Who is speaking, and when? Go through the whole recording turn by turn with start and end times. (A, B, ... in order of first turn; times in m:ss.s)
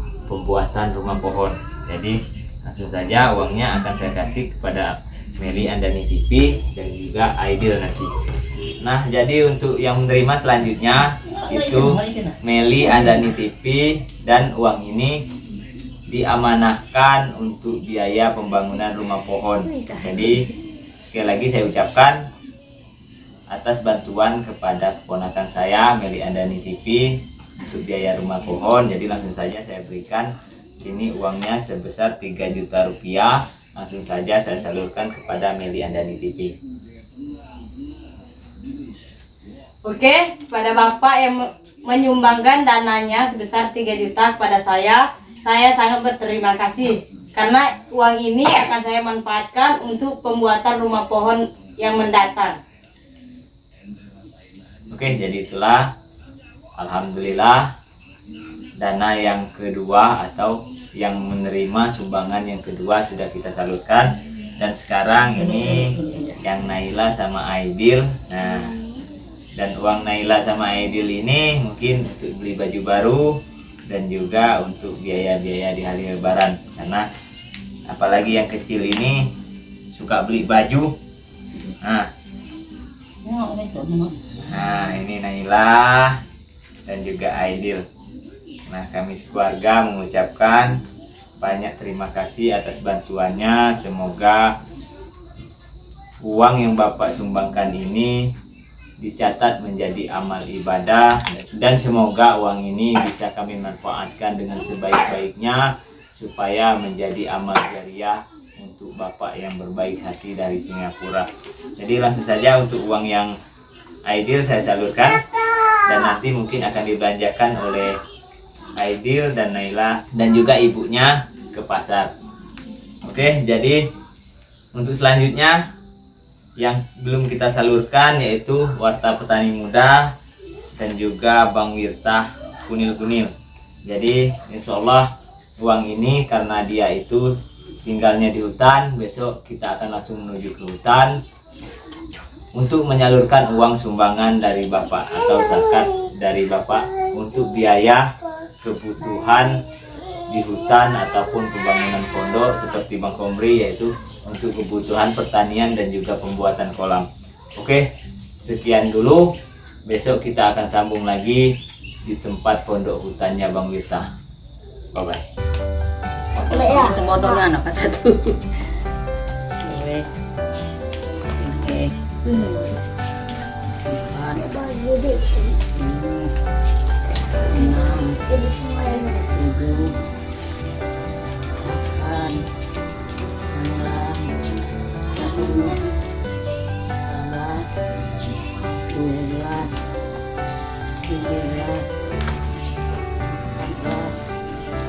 0:00.3-0:08.1 A
0:08.8-0:15.2 A
0:11.4-0:12.4 B
0:16.1-0:20.4 A
0:21.1-0:22.2 A
0:23.5-0:36.6 A
0:39.8-0:52.6 C
0:54.9-0:55.9 A
0:56.8-0:57.7 A
0:58.8-1:08.7 A
1:05.4-1:06.4 B
1:09.6-1:13.4 A
1:13.9-1:17.1 A
1:17.9-1:19.3 A
1:19.9-1:20.9 A
1:21.8-1:22.1 A
1:23.2-1:24.2 B
1:24.4-1:26.2 A
1:26.9-1:27.8 A
1:28.7-1:30.8 A
1:31.4-1:34.5 A
1:36.2-1:38.3 A
1:39.0-1:51.3 A
1:51.8-1:53.3 A
1:54.1-1:55.2 A
1:55.9-1:58.0 A
1:58.8-2:02.1 A
2:03.0-2:03.8 A
2:04.8-2:05.6 A
2:06.6-2:10.1 A
2:10.8-2:13.3 A
2:13.9-2:17.3 A
2:17.8-2:21.2 A
2:22.5-2:29.6 A
2:30.3-2:37.8 A
2:38.4-2:39.3 A
2:39.9-2:41.5 A
2:42.0-2:44.1 A
2:44.9-2:45.2 A
2:46.4-2:48.4 B
2:49.6-2:50.1 B
2:51.4-2:52.6 B
2:53.8-2:54.6 B
2:55.7-2:56.3 B
2:57.5-3:00.0 B
3:01.6-3:02.4 B
3:03.4-3:04.4 B
3:05.1-3:05.8 B
3:06.9-3:07.9 B
3:08.9-3:09.9 B
3:11.0-3:12.1 B
3:13.5-3:14.3 B